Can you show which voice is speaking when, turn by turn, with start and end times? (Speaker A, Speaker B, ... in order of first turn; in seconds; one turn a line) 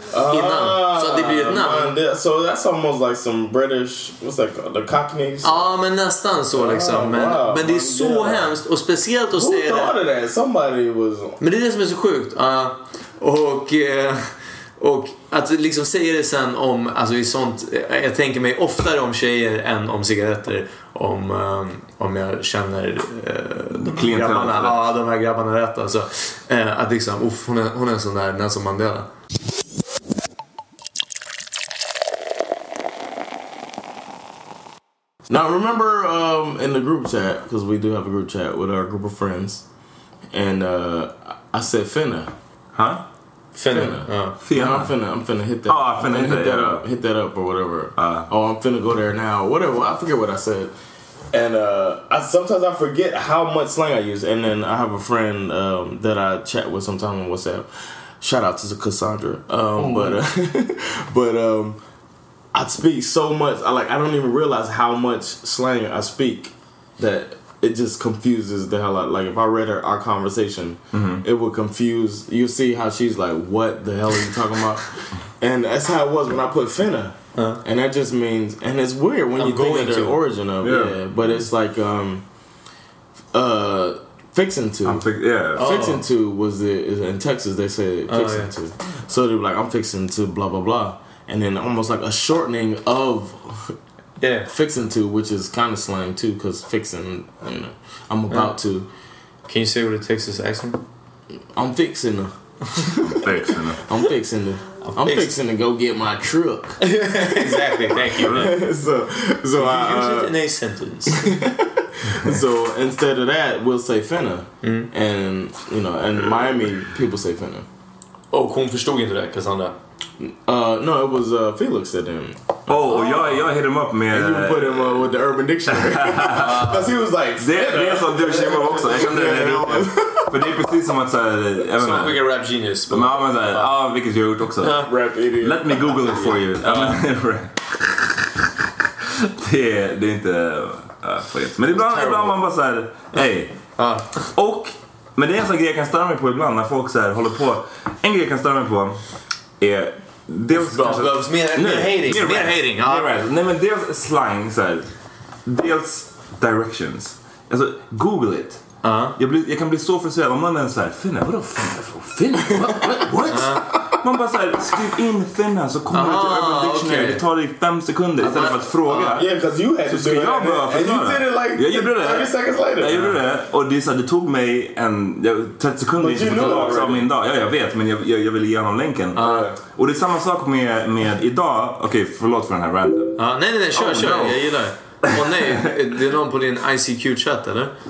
Speaker A: 0.1-5.6
Speaker B: 0.3-2.0
Speaker B: 5.4-10.0
Speaker A: 6.5-8.6
Speaker A: 9.3-11.4
Speaker B: 11.4-29.1
Speaker C: 23.8-24.8
Speaker A: 35.3-39.6
Speaker A: 40.3-42.3
Speaker C: 42.8-43.0
Speaker B: 43.5-44.4
Speaker A: 43.7-50.7
Speaker C: 44.4-44.9
Speaker C: 45.7-46.8
Speaker C: 48.0-48.3
Speaker A: 51.3-61.8
Speaker B: 59.8-60.2
Speaker A: 62.5-82.2
Speaker C: 70.9-71.2
Speaker B: 77.4-77.6
Speaker B: 79.4-80.2
Speaker C: 80.6-81.0
Speaker A: 83.3-85.0
Speaker C: 84.9-85.6
Speaker A: 85.5-93.8
Speaker B: 85.6-86.0
Speaker B: 88.1-88.5
Speaker B: 94.2-94.5
Speaker A: 94.5-98.9
Speaker B: 99.5-100.8
Speaker A: 101.5-102.3
Speaker C: 103.0-103.8
Speaker A: 103.8-110.4
Speaker B: 104.8-105.3
Speaker B: 106.8-108.6
Speaker C: 108.1-108.6
Speaker B: 109.5-111.3
Speaker A: 111.1-117.7
Speaker B: 114.6-114.9
Speaker B: 118.3-119.8
Speaker A: 120.2-123.4
Speaker C: 122.7-125.1
Speaker A: 124.1-130.5
Speaker C: 125.8-126.6
Speaker B: 126.4-126.9
Speaker C: 127.4-132.2
Speaker B: 131.7-133.7
Speaker C: 132.9-134.8
Speaker B: 134.6-134.9
Speaker A: 134.8-136.8
Speaker C: 135.4-138.3
Speaker B: 136.2-137.0
Speaker C: 139.2-143.6
Speaker B: 141.7-142.4
Speaker B: 143.8-144.3
Speaker C: 144.3-149.0
Speaker C: 149.6-154.9
Speaker B: 150.5-153.2
Speaker C: 155.5-158.6
Speaker B: 158.8-159.2
Speaker C: 159.2-169.3
Speaker A: 162.7-163.1
Speaker B: 163.3-163.7
Speaker B: 165.9-167.2
Speaker B: 168.2-169.2
Speaker A: 169.1-173.0
Speaker C: 169.9-183.2
Speaker B: 172.9-173.2
Speaker A: 176.0-177.1
Speaker B: 176.3-176.8
Speaker B: 179.2-179.5
Speaker A: 179.2-179.5
Speaker B: 183.2-187.7
Speaker C: 183.7-184.5
Speaker C: 185.1-185.7